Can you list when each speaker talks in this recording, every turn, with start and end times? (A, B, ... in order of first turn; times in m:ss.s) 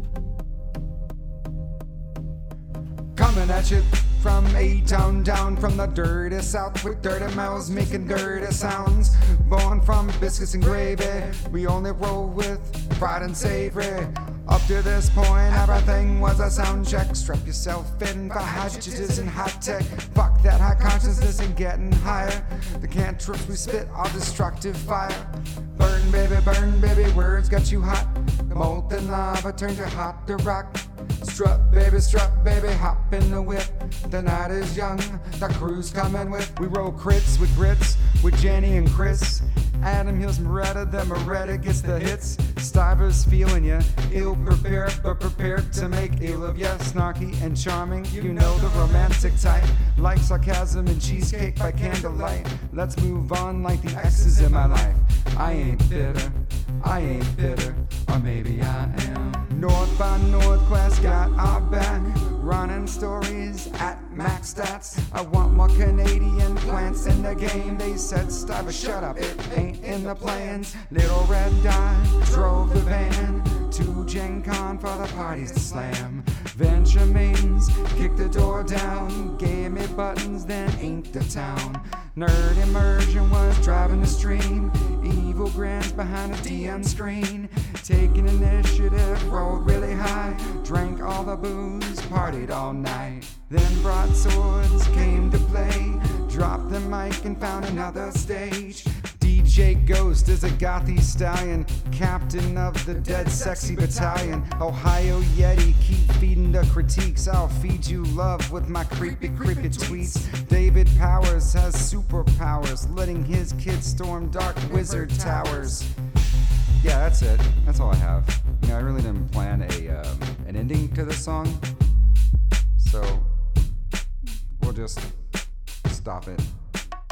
0:03.1-1:55.9 A
1:56.8-2:01.6 A
2:02.8-2:03.3 A
2:04.6-2:05.1 A
2:05.9-2:06.5 A